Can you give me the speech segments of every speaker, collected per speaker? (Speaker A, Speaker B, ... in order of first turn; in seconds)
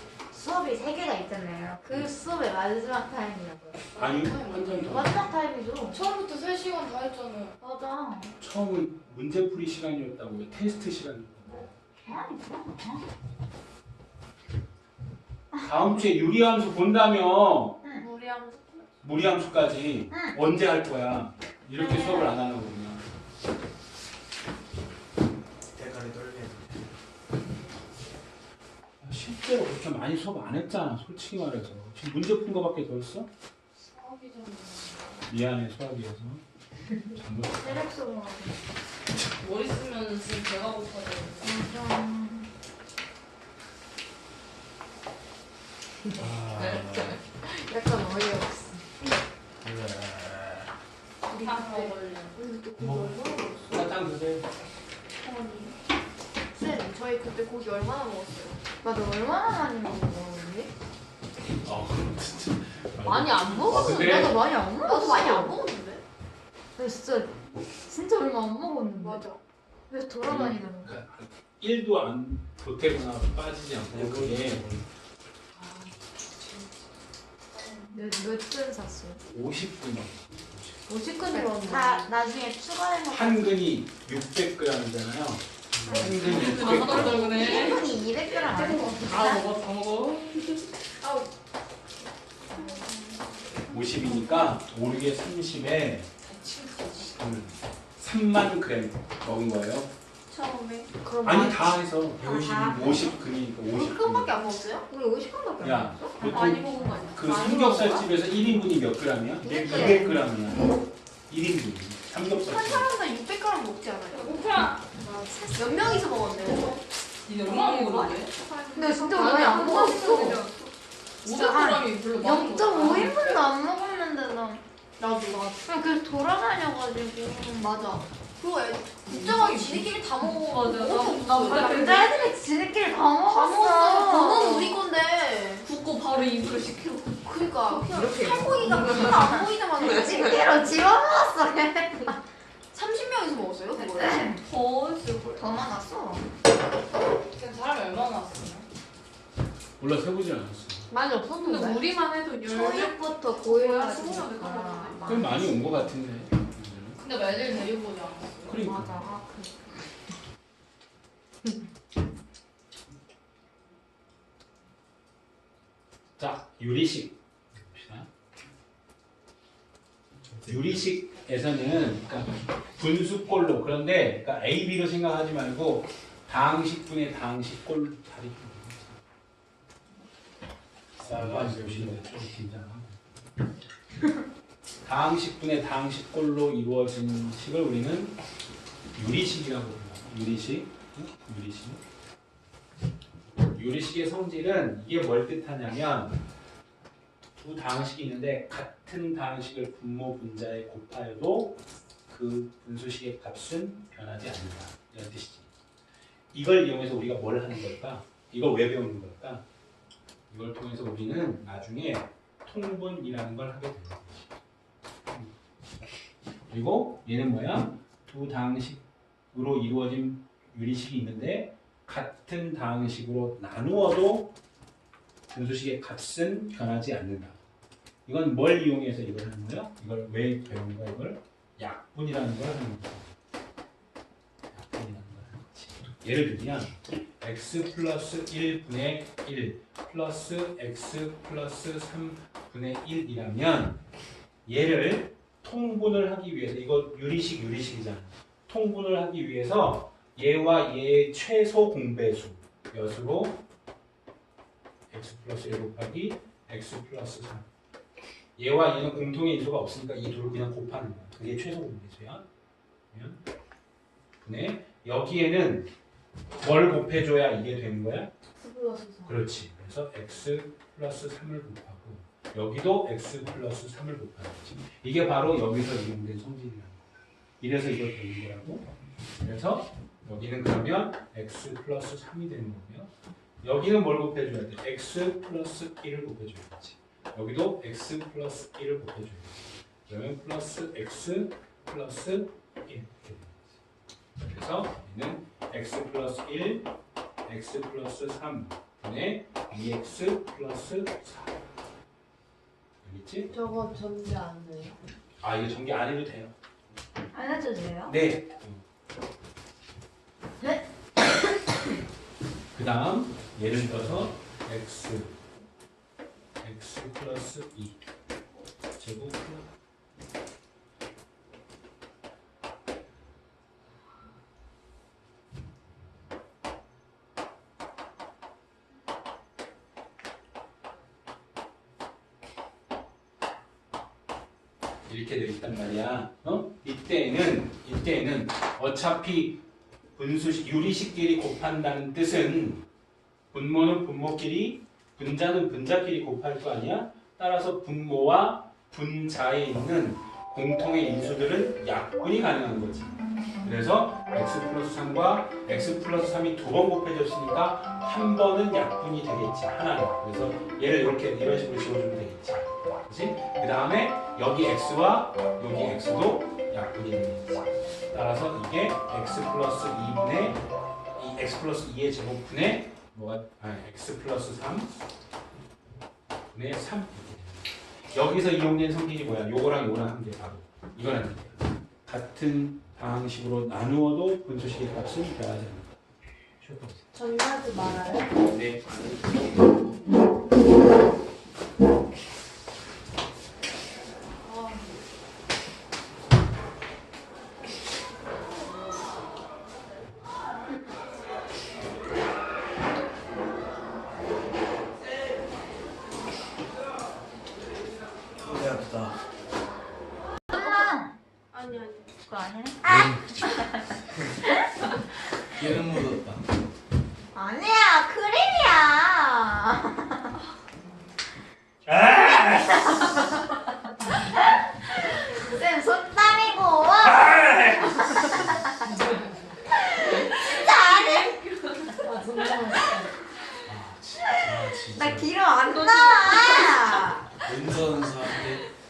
Speaker A: 0.3-3.8, 4.9-6.0, 7.6-8.3, 12.1-13.0, 20.1-20.4, 21.8-22.3, 37.6-38.6, 41.4-42.5, 46.2-47.2, 51.4-51.8, 58.8-60.7, 63.7-65.6, 66.8-69.2, 69.9-71.0, 77.9-79.2, 80.9-83.6, 85.9-89.5, 92.6-92.9, 102.2-103.2, 104.9-106.6, 109.4-110.2, 115.0-116.4, 117.5-117.9, 118.7-120.7, 121.3-124.6, 125.6-128.0, 131.4-134.8, 137.7-142.2, 143.9-144.4, 145.4-146.3, 151.3-151.8, 152.5-155.7, 158.6-159.9, 307.1-308.0, 410.3-411.0, 412.1-413.7, 417.1-420.2, 421.9-423.0, 425.1-428.4, 429.8-431.2, 434.1-437.1
Speaker B: 4.0-4.7, 18.0-18.9, 47.4-48.9, 51.3-53.9, 55.2-55.7, 56.5-58.6, 63.0-66.0, 69.0-69.4, 75.6-76.6, 77.6-77.9, 81.1-82.1, 86.6-87.9, 91.0-91.3, 92.5-93.1, 100.3-101.7, 103.7-104.9, 106.3-108.0, 112.2-114.3, 115.5-116.9, 119.1-120.2, 125.0-125.7, 127.6-130.0, 130.6-132.0, 133.3-135.7, 137.2-140.6, 142.7-144.3, 150.9-155.0, 268.4-269.2, 303.3-304.8, 386.9-388.1, 411.3-411.9, 431.7-432.9
Speaker C: 4.0-5.3, 8.4-11.8, 15.6-17.8, 19.0-23.1, 29.0-33.3, 35.3-36.4, 37.0-37.9, 53.7-54.5, 61.6-64.5, 70.2-74.7, 79.3-81.0, 83.1-87.5, 93.7-96.1, 97.2-99.9, 101.2-104.4, 105.6-112.9, 149.8-150.9, 155.0-157.0, 158.4-159.1, 166.2-168.1, 170.5-179.0, 181.0-183.0, 184.8-188.2, 188.9-191.8, 193.3-196.2, 197.4-205.5, 206.3-209.4, 210.3-214.4, 216.5-224.4, 225.3-227.4, 228.1-233.2, 234.5-243.8, 244.5-253.4, 254.9-257.5, 258.4-262.3, 262.9-263.2, 264.2-265.7, 266.4-268.1, 269.1-276.9, 277.4-278.7, 279.2-293.5, 294.2-296.7, 297.3-301.4, 302.8-303.3, 305.2-306.4, 307.9-308.6, 312.5-315.2, 316.4-317.8, 318.8-319.5, 334.9-339.4, 339.9-342.7, 343.3-370.4, 371.0-374.7, 376.3-385.8, 386.4-386.9, 388.2-389.5, 427.2-427.6, 433.5-435.1
Speaker D: 5.9-7.6, 33.9-35.2, 39.4-41.6, 51.3-52.4, 86.2-90.5, 96.2-97.2, 106.3-107.4, 114.1-114.8, 117.2-120.5, 121.2-123.3, 129.1-132.2, 135.7-137.1, 138.6-140.3, 144.2-145.5, 147.3-148.7, 157.0-158.5, 436.1-436.4
Speaker E: 25.8-26.8, 46.2-47.2, 49.6-50.6, 73.9-74.8, 85.8-86.1, 170.3-170.8, 181.0-182.2, 408.2-409.0, 412.7-413.3, 415.3-416.3, 434.0-435.1, 437.2-438.4